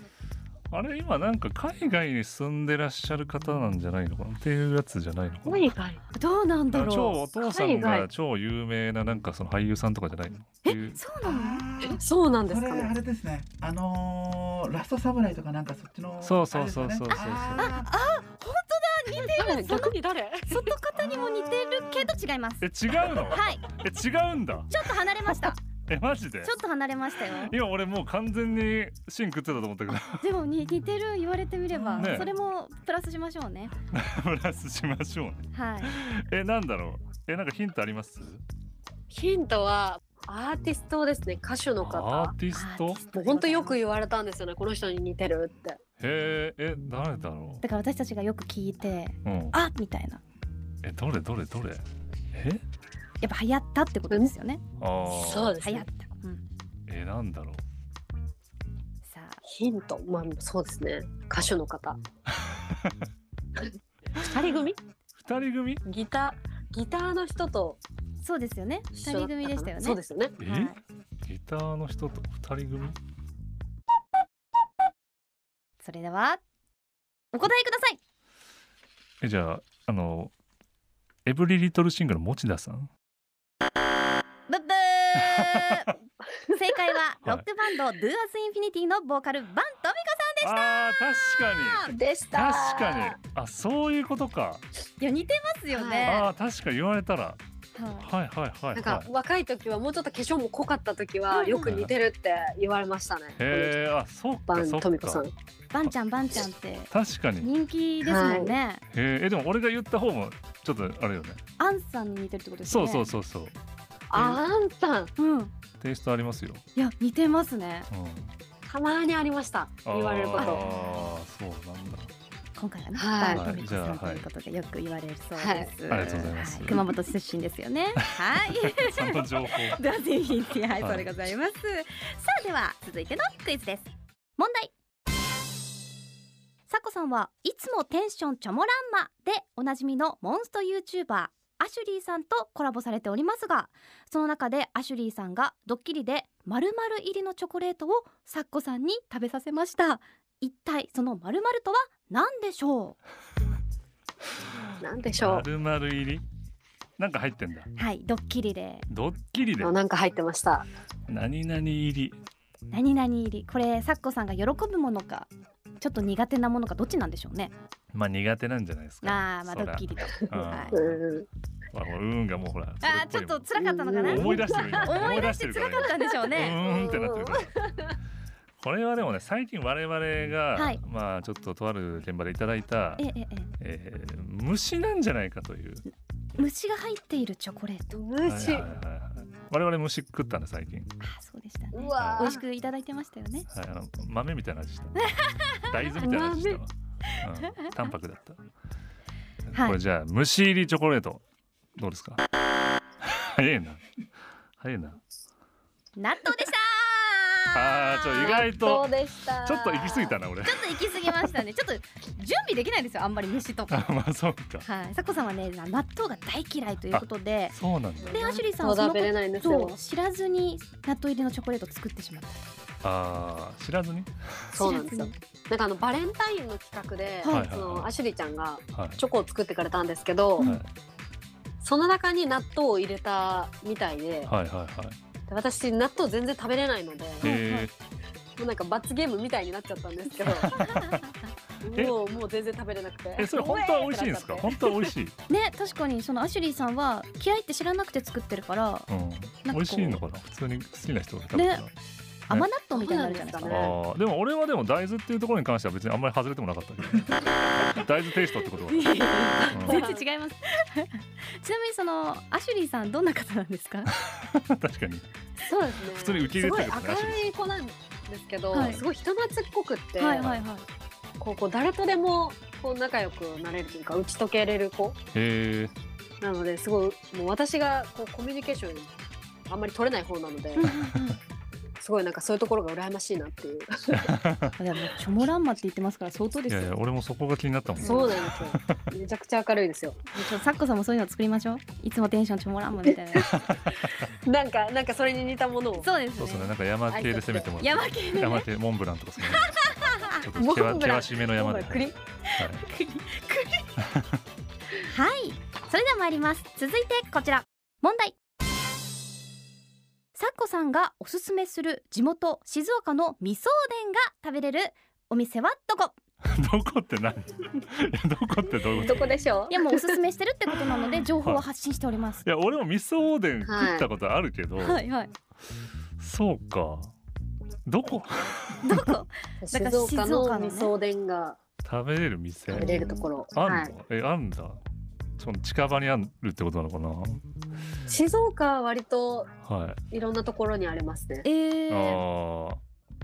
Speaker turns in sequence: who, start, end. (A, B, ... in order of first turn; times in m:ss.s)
0:00.7-0:05.7 A
0:05.4-0:06.0 B
0:06.1-0:07.2 C
0:06.7-0:11.0 A
0:07.4-0:08.1 B
0:10.6-0:11.9 C
0:11.2-0:17.9 D
0:12.0-0:12.9 B
0:16.2-0:17.8 A
0:17.1-0:20.0 C
0:19.2-0:20.7 B
0:20.5-0:23.6 C
0:21.0-0:21.5 A
0:22.6-0:26.6 A
0:24.7-0:25.6 C
0:26.4-0:27.6 C
0:27.2-0:30.3 A
0:30.2-0:33.8 C
0:31.7-0:32.3 D
0:32.0-0:32.3 A
0:33.9-0:38.4 A
0:35.5-0:36.0 C
0:39.1-0:42.4 B
0:41.8-0:43.0 A
0:42.5-0:43.8 C
0:43.1-0:45.8 B
0:46.0-0:47.6 A
0:47.6-0:50.2 C
0:49.2-0:49.6 A
0:50.8-0:52.6 A
0:53.2-0:54.6 C
0:54.8-0:55.6 A
0:55.1-0:55.9 B
0:55.6-0:56.4 C
0:56.9-0:57.6 A
0:59.0-0:59.4 C
0:59.4-1:02.0 B
1:02.3-1:03.1 A
1:03.6-1:04.8 B
1:05.2-1:05.8 A
1:05.9-1:07.8 B
1:08.2-1:10.8 C
1:09.0-1:10.4 B
1:10.4-1:13.0 A
1:15.8-1:16.4 C
1:17.3-1:18.0 C
1:19.2-1:20.3 A
1:21.2-1:22.9 A
1:24.5-1:26.0 C
1:25.2-1:25.9 A
1:26.5-1:31.9 C
1:30.4-1:34.6 A
1:31.9-1:33.2 B
1:35.0-1:36.3 C
1:35.7-1:36.1 B
1:36.0-1:37.4 A
1:37.8-1:38.1 C
1:38.0-1:39.1 A
1:38.8-1:43.8 B
1:41.3-1:41.8 C
1:41.6-1:41.9 A
1:43.4-1:45.3 A
1:44.5-1:45.3 B
1:45.7-1:48.8 C
1:46.9-1:47.5 A
1:48.0-1:48.5 B
1:48.9-1:51.4 A
1:51.6-1:53.1 C
1:52.6-1:53.6 A
1:54.1-1:55.1 B
1:54.1-1:54.4 A
1:55.2-1:55.5 C
1:55.8-1:56.6 A
1:56.8-1:57.9 C
1:57.9-1:58.3 A
1:58.7-2:00.6 B
1:59.9-2:02.1 A
2:00.4-2:01.1 C
2:02.6-2:14.7 C
2:03.0-2:03.5 B
2:03.3-2:04.2 A
2:05.4-2:05.7 B
2:05.9-2:06.8 A
2:08.2-2:09.8 A
2:10.8-2:11.1 A
2:16.7-2:33.0 C
2:34.8-2:35.5 B
2:35.2-2:36.2 A
2:37.0-2:37.7 A
2:37.8-2:38.9 C
2:38.9-2:39.8 A
2:39.6-2:40.7 B
2:41.1-2:42.2 A
2:42.7-2:45.3 C
2:45.8-2:47.5 C
2:47.9-2:51.0 A
2:49.0-2:50.8 C
2:50.7-2:51.3 B
2:51.7-2:57.5 A
2:52.8-2:56.6 C
2:53.6-2:55.2 B
2:56.2-2:58.0 B
2:58.6-3:03.0 A
3:00.6-3:00.8 C
3:03.0-3:03.5 C
3:03.6-3:05.8 A
3:06.4-3:08.0 C
3:07.9-3:08.7 B
3:08.2-3:10.9 A
3:11.0-3:13.5 C
3:11.7-3:12.4 B
3:12.0-3:12.4 A
3:13.5-3:18.5 A
3:15.0-3:15.7 C
3:16.0-3:16.6 B
3:19.5-3:21.2 A
3:19.5-3:19.8 C
3:21.8-3:22.2 A
3:23.0-3:23.8 A
3:24.6-3:25.0 A
3:26.0-3:28.4 C
3:27.5-3:28.9 A
3:28.1-3:30.2 B
3:29.4-3:30.6 A
3:30.4-3:33.8 C
3:33.7-3:34.6 A
3:34.6-3:37.6 C
3:36.9-3:38.2 A
3:38.0-3:39.8 B
3:38.1-3:42.5 C
3:42.8-3:44.7 A
3:44.5-3:50.5 B
3:44.6-3:45.1 C
3:47.2-3:47.5 C
3:47.3-3:47.9 A
3:48.7-3:49.0 A
3:50.4-3:50.7 A
3:51.6-3:54.3 B
3:54.3-3:55.0 A
3:55.3-3:57.3 B
3:57.2-3:57.7 A
3:57.2-3:57.7 C
3:58.4-4:00.5 B
4:00.3-4:01.1 A
4:00.5-4:01.1 C
4:01.6-4:04.9 B
4:01.7-4:02.0 A
4:03.2-4:05.1 A
4:05.3-4:08.9 C
4:08.9-4:11.7 A
4:09.4-4:10.0 C
4:11.4-4:11.6 C
4:12.3-4:13.6 C
4:12.7-4:13.8 B
4:13.5-4:19.8 A
4:18.6-4:24.0 C
4:19.4-4:20.1 B
4:24.0-4:25.1 A
4:25.4-4:30.3 B
4:25.9-4:27.2 A
4:28.5-4:28.8 C
4:28.6-4:28.8 A
4:30.0-4:30.6 C
4:31.2-4:35.0 B
4:35.1-4:35.7 A
4:36.2-4:38.9 B
4:39.5-4:40.7 B
4:40.6-4:41.2 C
4:41.8-4:44.1 B
4:43.9-4:44.6 A
4:44.6-4:46.7 C
4:46.5-4:48.9 A
4:47.8-4:48.2 C
4:47.8-4:50.0 B
4:50.1-4:53.3 C
4:53.2-4:54.1 A
4:53.8-4:55.9 B
4:55.8-4:56.5 C
4:56.2-4:59.6 A
4:56.9-4:57.6 B
4:57.6-4:58.4 C
4:59.3-5:00.2 C
5:00.1-5:02.6 A
5:00.4-5:02.0 B
5:02.3-5:03.7 C
5:03.8-5:04.2 A
5:04.8-5:08.2 C
5:10.2-5:16.0 C
5:16.2-5:19.2 A
5:18.8-5:20.0 B
5:19.5-5:22.2 C
5:20.7-5:21.4 A
5:22.2-5:24.8 A
5:23.5-5:23.9 B
5:24.6-5:25.1 C
5:26.0-5:26.9 A
5:27.6-5:28.9 A
5:28.6-5:30.7 C
5:29.4-5:31.4 B
5:31.6-5:32.7 A
5:32.5-5:33.1 C
5:32.5-5:33.7 B
5:33.4-5:34.6 A
5:35.2-5:37.2 A
5:37.9-5:39.3 B
5:39.4-5:39.8 A
5:39.9-5:41.3 B
5:41.2-5:42.0 C
5:41.7-5:42.6 A